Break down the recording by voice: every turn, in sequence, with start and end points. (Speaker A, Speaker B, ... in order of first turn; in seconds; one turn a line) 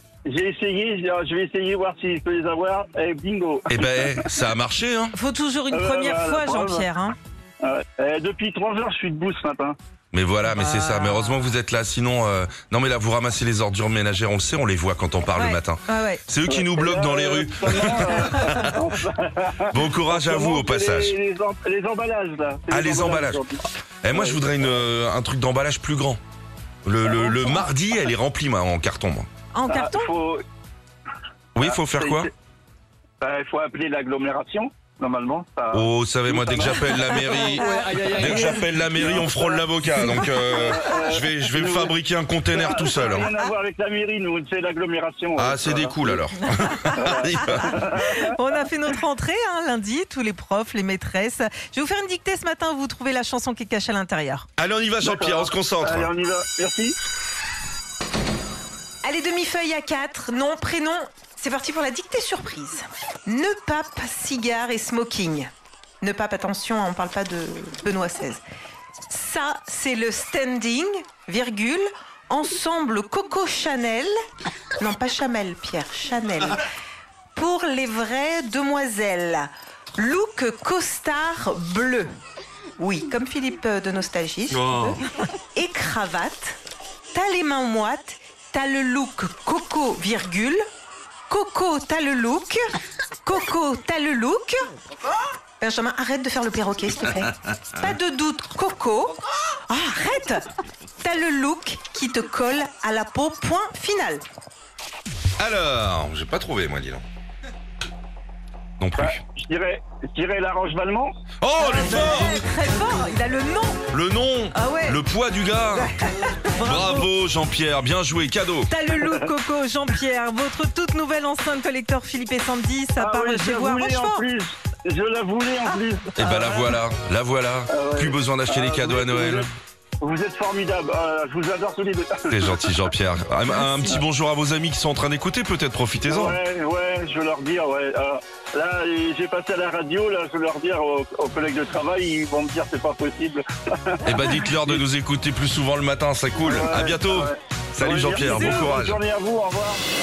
Speaker A: 0.2-4.1
Speaker B: 3.7-5.2
Speaker C: 5.1-7.1
Speaker A: 5.7-6.9
Speaker A: 7.6-9.8
Speaker B: 10.1-18.8
Speaker C: 10.5-11.4
Speaker C: 15.3-16.2
Speaker A: 16.5-24.8
Speaker C: 18.2-18.5
Speaker B: 19.7-21.1
Speaker B: 22.7-23.4
Speaker B: 24.0-26.2
Speaker B: 26.8-29.3
Speaker A: 27.2-27.5
Speaker C: 29.5-30.1
Speaker A: 29.7-30.4
Speaker B: 31.5-32.3
Speaker A: 31.6-32.3
Speaker A: 33.2-37.0
Speaker B: 35.7-43.3
Speaker C: 37.6-38.0
Speaker A: 37.6-39.7
Speaker A: 40.5-41.9
Speaker A: 42.5-45.9
Speaker B: 45.4-47.8
Speaker A: 47.0-48.2
Speaker C: 48.0-54.5
Speaker B: 54.6-56.1
Speaker A: 55.0-56.9
Speaker C: 59.0-65.5
Speaker C: 66.0-68.4
Speaker C: 69.1-74.1
Speaker C: 74.8-76.6
Speaker C: 77.3-82.1
Speaker C: 82.8-85.0
Speaker B: 84.5-85.0
Speaker C: 85.5-86.6
Speaker C: 87.1-90.6
Speaker C: 91.3-92.6
Speaker C: 93.2-94.6
Speaker C: 95.6-100.4
Speaker C: 101.0-104.2
Speaker B: 105.4-107.0
Speaker B: 108.8-109.2
Speaker A: 109.0-111.1
Speaker B: 111.4-112.4
Speaker C: 111.6-113.8
Speaker B: 113.9-115.9
Speaker C: 114.5-115.0
Speaker C: 115.7-117.1
Speaker B: 116.6-118.7
Speaker C: 118.7-124.2
Speaker A: 123.0-126.6
Speaker B: 126.2-129.5
Speaker A: 127.7-132.7
Speaker B: 132.3-136.4
Speaker C: 133.5-133.9
Speaker A: 136.1-144.1
Speaker B: 144.0-149.0
Speaker A: 146.4-149.8
Speaker C: 148.2-148.6